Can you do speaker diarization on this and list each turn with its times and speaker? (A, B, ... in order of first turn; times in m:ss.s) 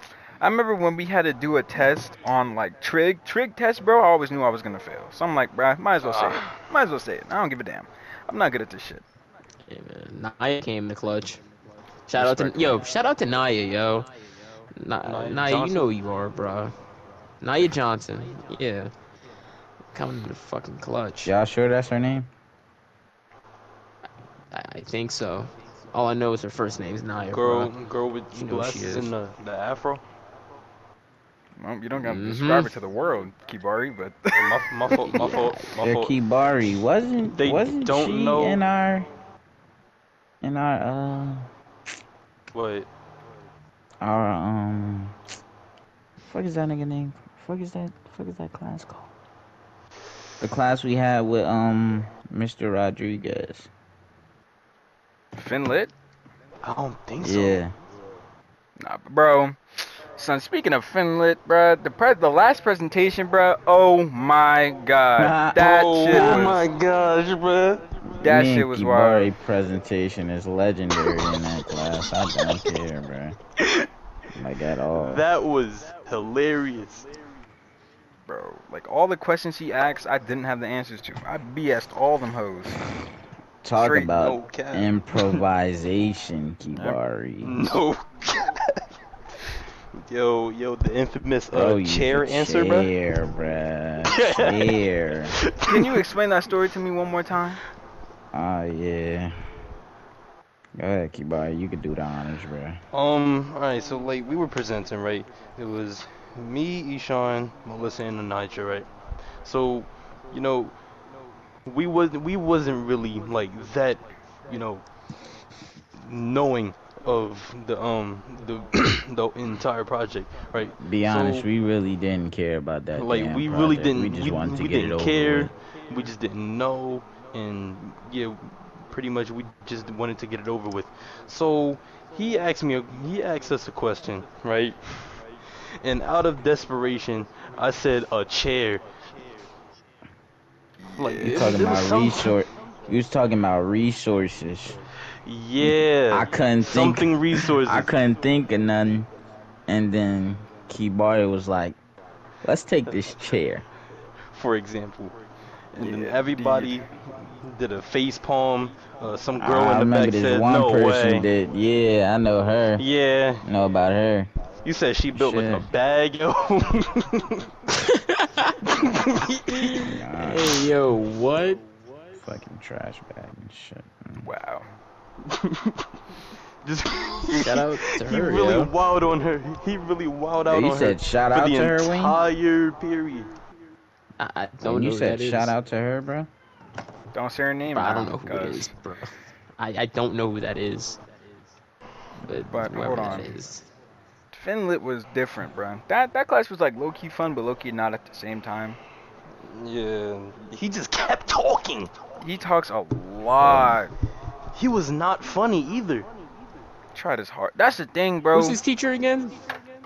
0:00.4-0:09.0 A
0:06.0-0:06.6 B
0:09.7-0:11.4 C
0:12.1-0:14.1 C
0:12.2-0:12.8 D
0:14.7-0:16.7 C
0:15.0-0:15.9 B
0:17.4-0:18.9 C
0:19.9-0:21.3 C
0:21.2-0:22.3 D
0:24.5-0:27.7 C
0:27.3-0:30.0 B
0:28.3-0:29.1 C
0:31.6-0:35.2 A
0:32.0-0:32.7 C
0:34.3-0:36.2 B
0:35.0-0:35.7 C
0:35.8-0:39.1 D
0:37.3-0:38.6 B
0:40.4-0:41.5 D
0:42.5-0:42.9 B
0:44.0-0:45.2 D
0:46.2-0:49.1 D
0:50.4-0:53.7 D
0:55.4-0:55.9 A
0:56.6-0:57.6 B
0:57.2-0:57.7 D
0:58.8-1:06.6 A
1:05.2-1:06.7 D
1:05.5-1:07.9 B
1:08.2-1:13.4 D
1:08.2-1:09.3 A
1:11.1-1:11.4 B
1:13.6-1:13.9 B
1:14.3-1:15.3 D
1:14.9-1:17.1 B
1:18.3-1:22.8 A
1:23.6-1:27.8 D
1:23.8-1:24.2 A
1:24.2-1:25.4 B
1:27.4-1:28.8 B
1:29.9-1:32.9 B
1:31.5-1:35.4 D
1:34.1-1:34.8 B
1:35.3-1:36.0 B
1:35.7-1:37.6 A
1:38.3-1:39.4 D
1:40.7-1:42.8 D
1:42.9-1:50.7 B
1:51.6-1:54.8 B
1:55.9-2:01.5 B
2:00.8-2:05.5 D
2:03.0-2:15.2 B
2:15.8-2:18.8 B
2:20.9-2:21.4 A
2:21.0-2:22.4 B
2:21.2-2:24.8 D
2:25.2-2:27.9 B
2:25.6-2:29.1 D
2:29.7-2:31.8 D
2:32.4-2:33.6 D
2:34.3-2:35.1 B
2:35.7-2:41.3 B
2:35.8-2:36.7 A
2:39.4-2:42.8 D
2:42.8-2:43.4 B
2:43.4-2:44.3 D
2:44.6-2:47.5 B
2:45.1-2:45.7 D
2:47.8-2:48.7 C
2:48.7-2:49.8 B
2:49.5-2:51.6 C
2:49.8-2:50.7 D
2:52.1-2:54.3 D
2:54.2-2:54.7 A
2:55.2-2:55.9 B
2:56.6-3:03.3 B
2:57.3-2:58.7 C
3:00.4-3:02.2 D
3:04.2-3:05.5 C
3:04.6-3:06.3 D
3:07.1-3:08.7 A
3:07.7-3:11.0 C
3:12.2-3:13.7 C
3:12.5-3:13.3 A
3:14.3-3:18.8 A
3:19.4-3:21.9 B
3:22.2-3:23.9 A
3:23.4-3:23.8 D
3:24.5-3:26.1 B
3:26.9-3:28.6 A
3:28.3-3:29.4 C